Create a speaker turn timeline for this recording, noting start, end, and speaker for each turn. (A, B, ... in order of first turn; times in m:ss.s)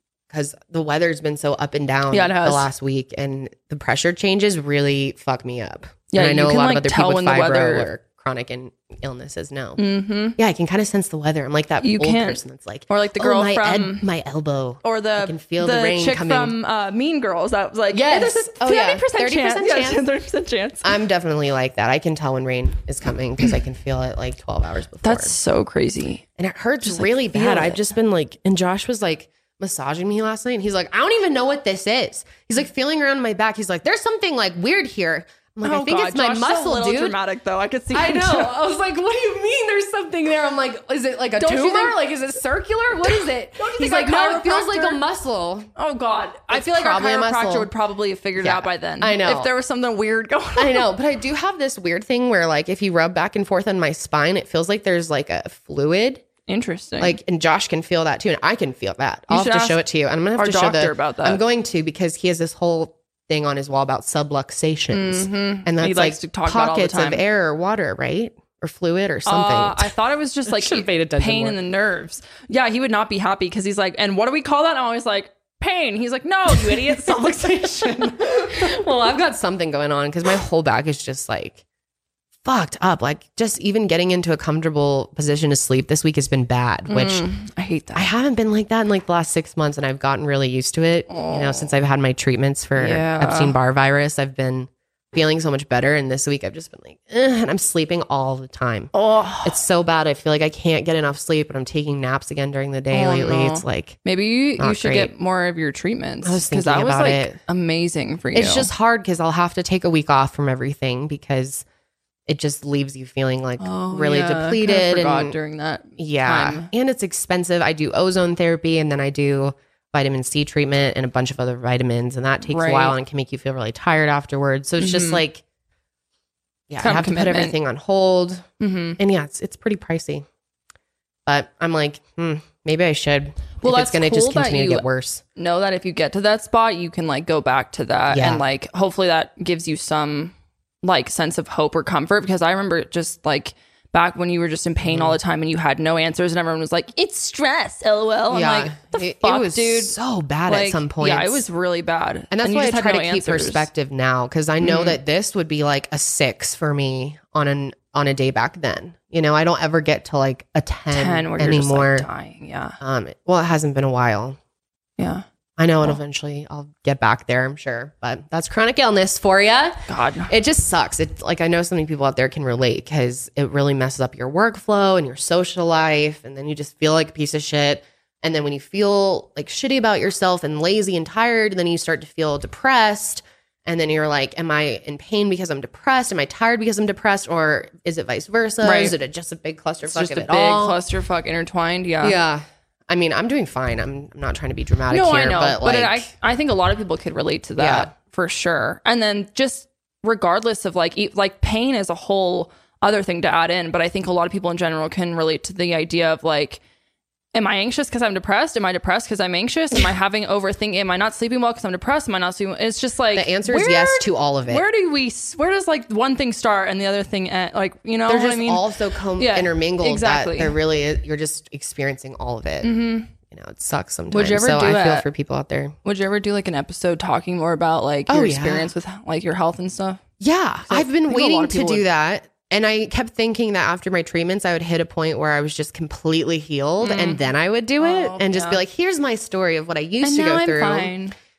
0:00.3-0:09.8 A
0:02.1-0:02.7 B
0:06.1-0:07.9 B
0:09.8-0:10.4 B
0:10.4-0:16.5 A
0:11.8-0:14.0 B
0:14.8-0:21.0 B
0:17.9-0:20.0 A
0:20.8-0:25.4 A
0:25.0-0:26.2 B
0:26.4-0:37.2 A
0:26.8-0:27.8 B
0:35.6-0:38.5 B
0:37.9-0:45.7 A
0:41.4-0:42.0 B
0:43.0-0:45.0 B
0:45.8-0:50.9 B
0:46.5-0:47.7 A
0:48.4-0:49.5 A
0:50.6-0:56.2 A
0:56.5-0:57.2 B
0:57.0-1:09.9 A
0:59.3-0:59.8 B
1:00.3-1:01.4 B
1:04.9-1:07.2 B
1:09.2-1:18.8 B
1:10.5-1:11.6 A
1:16.6-1:21.6 A
1:22.4-1:27.2 A
1:26.9-1:28.1 B
1:27.9-1:44.0 A
1:31.1-1:31.7 B
1:32.8-1:33.5 B
1:38.9-1:39.6 B
1:42.9-1:48.7 B
1:44.6-1:45.1 A
1:46.2-1:47.4 A
1:48.3-1:51.6 A
1:52.3-1:55.3 A
1:53.6-1:56.7 B
1:56.0-2:05.4 A
2:02.4-2:03.0 B
2:04.8-2:05.2 B
2:06.7-2:08.5 A
2:06.8-2:07.6 B
2:08.6-2:09.0 B
2:09.0-2:10.2 A
2:11.3-2:15.2 A
2:13.6-2:14.8 B
2:15.4-2:29.9 B
2:18.1-2:18.4 A
2:24.8-2:25.2 A
2:28.3-2:31.4 A
2:30.5-2:33.7 B
2:32.3-2:42.1 A
2:34.6-2:35.0 B
2:40.9-2:42.8 B
2:42.8-2:44.4 A
2:45.0-2:45.2 B
2:45.6-3:10.8 A
2:49.9-2:50.3 B
3:08.6-3:08.9 B
3:09.8-3:12.2 B
3:12.0-3:16.1 A
3:14.9-3:26.6 B
3:17.6-3:17.9 A
3:27.3-3:38.6 B
3:33.1-3:34.6 A
3:38.1-3:45.8 A
3:39.2-3:40.6 B
3:42.6-3:43.1 B
3:44.1-3:45.0 B
3:45.8-3:50.0 B
3:48.1-3:48.7 A
3:50.2-4:00.9 A
3:50.7-3:51.8 B
3:56.8-3:57.2 B
3:57.8-3:58.6 B
4:00.0-4:01.1 B